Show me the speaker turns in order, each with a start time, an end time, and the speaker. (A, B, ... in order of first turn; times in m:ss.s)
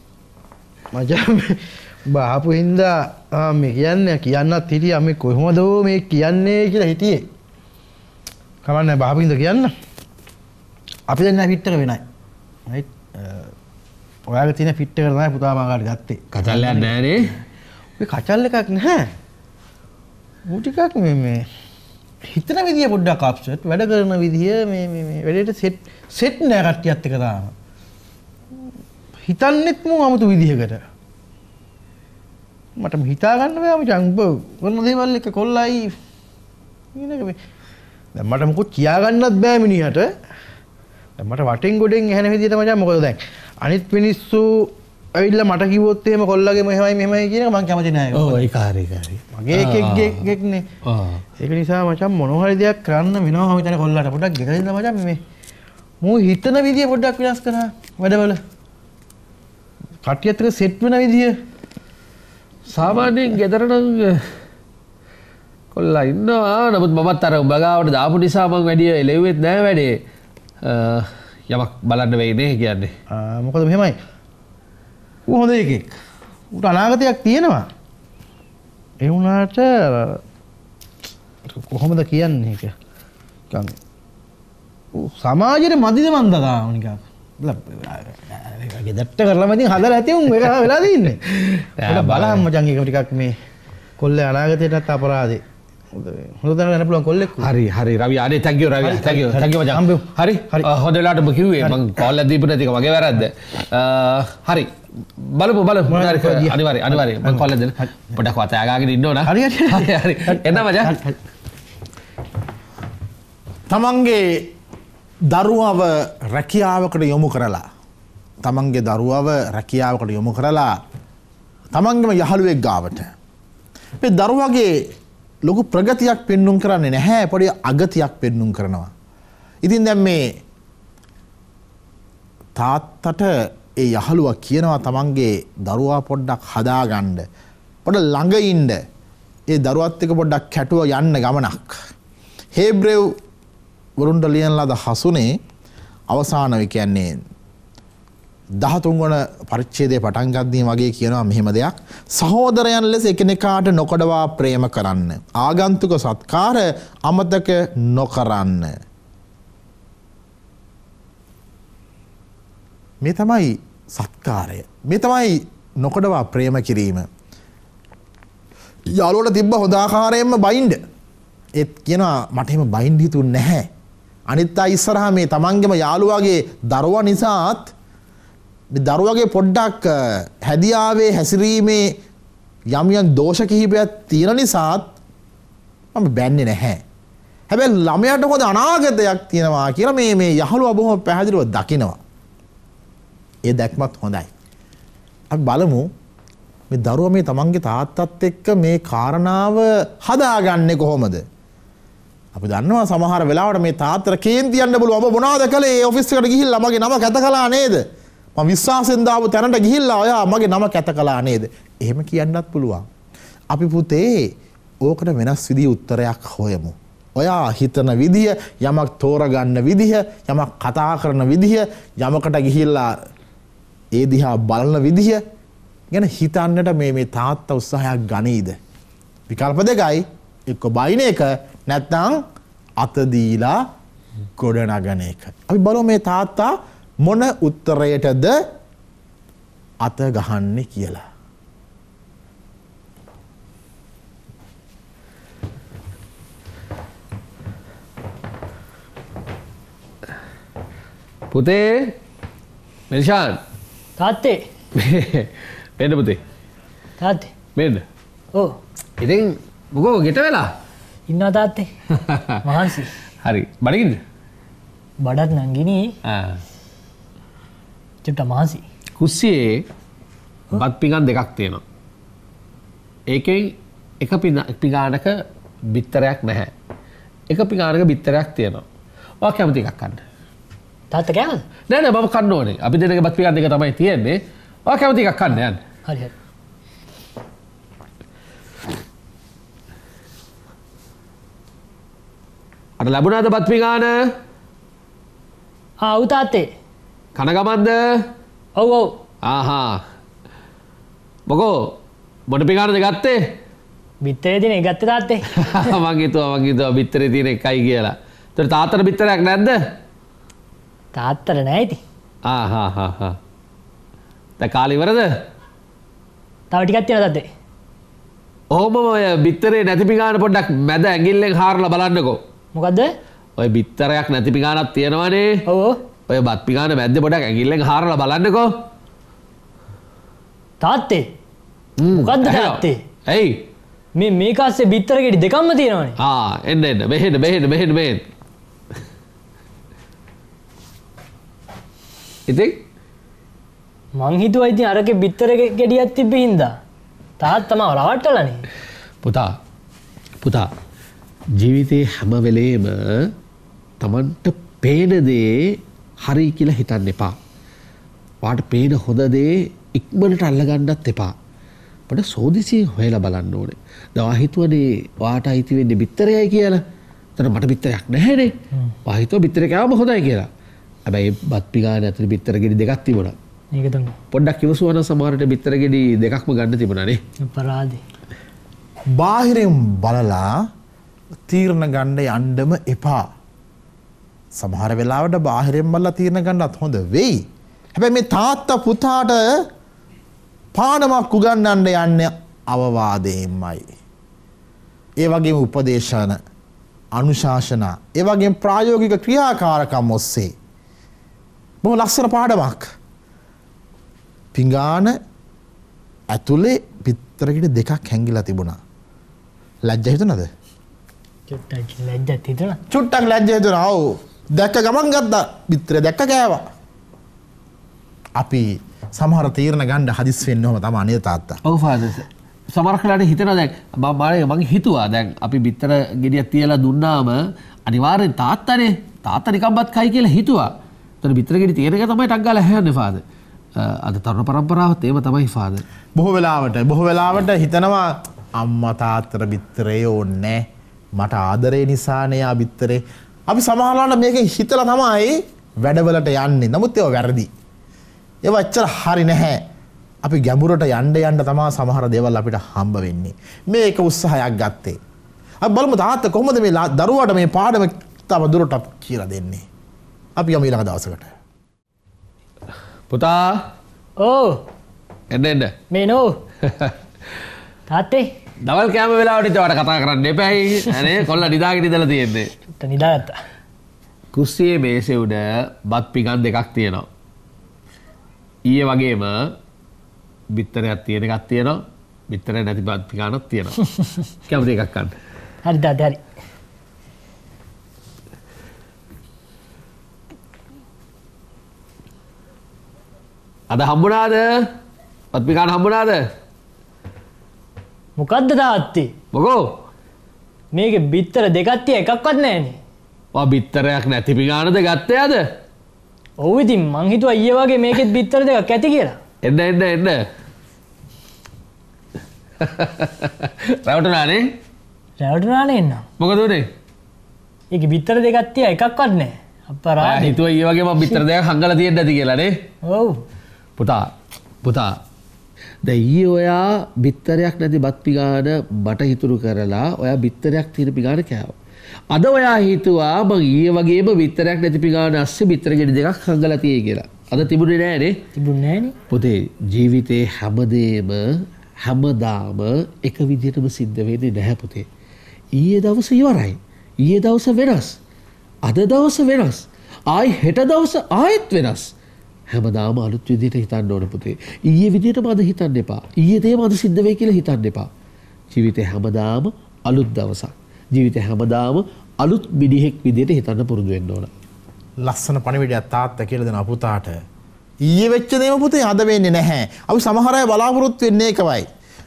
0:00.9-0:07.3 A
0:08.6-0:09.7 A
0:11.1-0:12.0 A
0:12.7-0:13.5 A
0:14.3-0:17.0 A
0:16.3-0:17.3 B
0:18.0-0:19.1 A
0:20.5-0:21.5 A
0:22.2-0:27.5 A
0:29.2-0:30.8 A
0:32.8-0:36.0 A
0:37.0-0:37.4 A
0:38.2-0:40.1 A
0:41.2-0:48.5 A
0:48.1-0:50.3 B
0:49.4-0:50.7 A
0:50.8-0:51.2 B
0:51.4-0:55.2 A
0:56.0-0:58.4 A
1:00.0-1:01.4 A
1:02.7-1:04.3 B
1:05.7-1:10.0 B
1:10.6-1:12.9 B
1:13.1-1:14.0 A
1:15.3-1:16.0 A
1:16.5-1:17.7 A
1:19.0-1:20.2 A
1:21.4-1:22.7 A
1:23.5-1:23.8 A
1:24.9-1:33.4 A
1:31.4-1:32.5 B
1:34.0-1:37.5 A
1:37.4-1:51.0 B
1:38.8-1:40.7 A
1:45.9-1:47.5 A
1:49.2-1:51.2 A
1:53.7-1:54.4 C
1:55.3-1:57.6 C
1:58.4-2:00.8 C
2:01.7-2:03.1 C
2:04.0-2:04.7 C
2:05.4-2:08.9 C
2:09.6-2:10.2 C
2:12.6-2:17.3 C
2:17.8-2:18.8 C
2:19.5-2:21.8 C
2:22.5-2:23.1 C
2:24.0-2:25.4 C
2:26.1-2:27.2 C
2:28.6-2:38.8 C
2:43.0-2:47.1 C
2:48.9-2:50.8 C
2:51.6-2:53.7 C
2:54.3-2:57.7 C
2:58.7-3:01.9 C
3:02.7-3:04.9 C
3:05.9-3:06.8 C
3:07.5-3:12.0 C
3:13.4-3:14.3 C
3:15.3-3:15.9 C
3:16.7-3:21.2 C
3:22.3-3:27.8 C
3:28.4-3:32.9 C
3:33.5-3:34.3 C
3:34.8-3:42.9 C
3:43.9-3:45.2 C
3:45.9-3:48.6 C
3:49.3-3:52.2 C
3:52.8-3:53.6 C
3:54.4-3:58.4 C
3:59.8-4:01.0 C
4:11.3-4:12.0 B
4:12.9-4:13.4 B
4:14.0-4:14.4 D
4:14.8-4:16.2 B
4:17.0-4:17.3 D
4:17.6-4:17.8 B
4:19.0-4:20.5 B
4:21.1-4:21.7 D
4:22.0-4:22.3 B
4:22.4-4:22.9 D
4:23.2-4:24.0 B
4:25.0-4:26.0 D
4:26.0-4:26.4 B
4:28.0-4:28.6 D
4:29.0-4:29.7 B
4:30.5-4:31.6 B
4:33.1-4:36.5 B
4:37.3-4:38.6 B
4:39.2-4:40.0 B
4:40.9-4:41.4 D
4:41.7-4:45.6 B
4:45.8-4:46.1 D
4:52.8-4:54.0 B
4:55.8-4:56.5 D
4:57.2-4:57.8 B
4:58.6-4:58.9 D
4:59.2-4:59.8 B
5:01.3-5:01.7 B
5:02.3-5:03.3 B
5:04.0-5:05.7 D
5:05.4-5:09.6 B
5:10.9-5:11.8 D
5:12.2-5:13.2 B
5:14.4-5:15.1 B
5:16.5-5:17.3 D
5:18.5-5:22.2 B
5:22.5-5:22.9 D
5:23.4-5:25.4 B
5:25.5-5:25.8 D
5:26.1-5:28.5 B
5:30.6-5:31.1 D
5:31.8-5:33.4 B
5:31.9-5:32.8 D
5:34.0-5:36.0 D
5:36.0-5:38.0 B
5:42.3-5:42.6 B
5:44.0-5:46.6 D
5:47.2-5:48.5 D
5:49.0-5:49.3 B
5:50.2-5:50.5 B
5:51.4-5:53.1 B
5:53.8-5:57.2 B
5:58.2-6:01.1 B
6:01.9-6:06.6 B
6:07.2-6:08.3 B
6:08.8-6:10.3 B
6:10.9-6:13.2 B
6:13.5-6:14.0 D
6:14.1-6:17.0 B
6:17.2-6:17.8 D
6:19.0-6:20.4 C
6:21.3-6:23.0 C
6:24.4-6:29.4 C
6:30.5-6:33.6 C
6:35.0-6:36.2 C
6:37.0-6:40.3 C
6:41.6-6:42.7 C
6:44.3-6:45.0 C
6:46.1-6:48.6 C
6:49.6-6:50.3 C
6:51.3-6:52.6 D
6:52.7-6:56.4 C
6:58.2-7:01.4 C
7:01.4-7:13.0 B
7:13.6-7:15.6 B
7:16.0-7:27.3 C
7:28.2-7:29.4 C
7:30.0-7:34.8 C
7:35.4-7:39.4 C
7:40.2-7:41.1 C
7:42.9-7:43.4 B
7:44.0-7:44.4 D
7:45.1-7:45.5 B
7:45.7-7:46.2 D
7:46.4-7:46.7 B
7:47.7-7:48.1 D
7:48.4-7:52.3 B
7:52.5-7:53.2 D
7:54.1-7:56.9 B
7:58.5-7:59.3 B
8:00.3-8:03.7 B
8:04.2-8:05.0 B
8:05.4-8:06.0 D
8:13.5-8:14.3 B
8:15.1-8:16.0 B
8:18.0-8:18.9 D
8:19.1-8:19.6 B
8:20.5-8:22.6 D
8:23.1-8:25.2 B
8:26.2-8:29.0 D
8:29.2-8:30.0 B
8:32.4-8:34.3 B
8:35.0-8:35.9 D
8:36.0-8:36.5 B
8:37.5-8:40.2 D
8:39.8-8:42.4 B
8:42.6-8:43.0 D
8:43.6-8:43.9 B
8:44.4-8:44.8 B
8:45.6-8:51.3 B
8:51.9-8:58.0 B
8:58.1-8:58.8 D
8:58.9-9:04.7 B
9:05.4-9:07.8 B
9:08.5-9:11.7 B
9:12.3-9:17.7 B
9:18.3-9:24.1 B
9:24.8-9:27.0 C
9:27.6-9:31.4 C